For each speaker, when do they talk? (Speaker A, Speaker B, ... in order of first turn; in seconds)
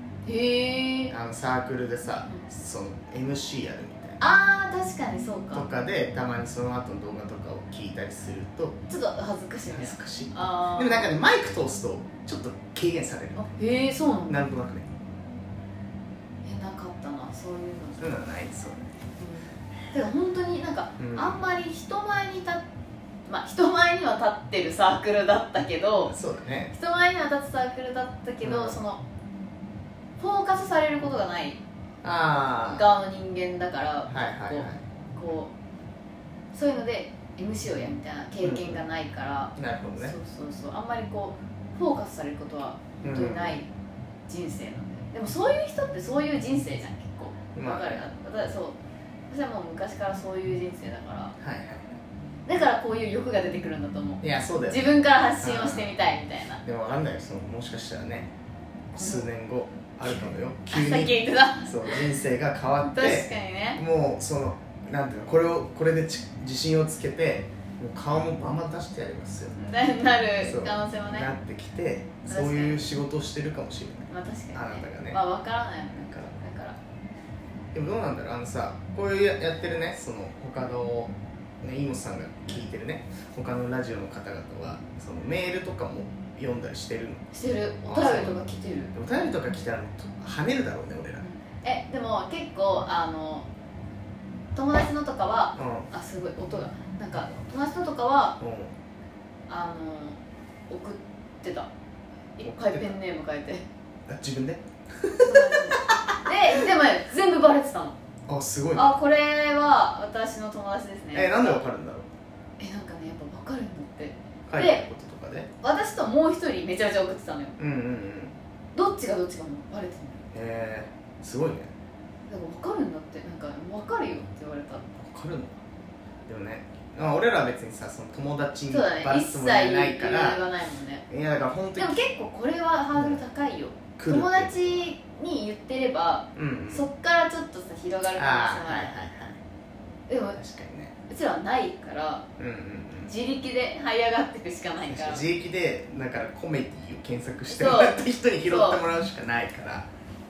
Speaker A: 0.2-1.1, 4.2-5.7, 8.9-11.1, 13.3-14.5, 16.4-18.1, 19.2-22.6, 23.3-26.1, 26.7-29.0, 30.2-31.6, 32.7-35.5, 36.5-43.7, 44.3-48.8, 49.3-51.4, 52.5-56.6, 59.0-59.3, 60.1-62.0, 62.9-63.8, 69.6-71.3, 72.3-72.9, 74.1-76.8, 87.3-88.9, 91.2-93.5, 94.5-98.4, 99.5-101.7, 102.4-103.7, 105.2-108.0, 108.7-111.6, 112.6-114.8, 115.6-117.6, 118.7-120.3, 122.3-124.9, 128.7-131.1, 131.8-139.0, 140.1-140.4, 141.1-142.2, 143.0-145.2, 147.5-148.8
Speaker B: 1.1-4.2, 5.5-8.8, 9.7-13.4, 14.3-14.9, 18.0-18.9, 21.0-21.4, 26.1-26.7, 28.4-28.8, 32.0-32.9, 34.1-34.8, 38.4-38.8, 39.6-40.1, 43.0-43.6, 47.5-48.0, 51.4-52.0, 54.2-54.9, 55.4-55.9, 56.6-58.3, 58.9-69.6, 70.4-75.2, 75.9-76.4, 77.7-87.3, 87.8-91.3, 95.6-95.9, 98.4-98.8, 102.4-102.9, 104.1-106.7, 108.3-109.0, 111.1-112.1, 114.5-115.5, 117.6-118.3, 120.3-121.7, 125.0-125.6, 126.3-130.4, 131.1-132.0, 132.9-133.2, 134.0-134.9, 136.3-136.9, 138.2-139.4, 140.4-140.9, 142.4-143.1, 144.9-149.9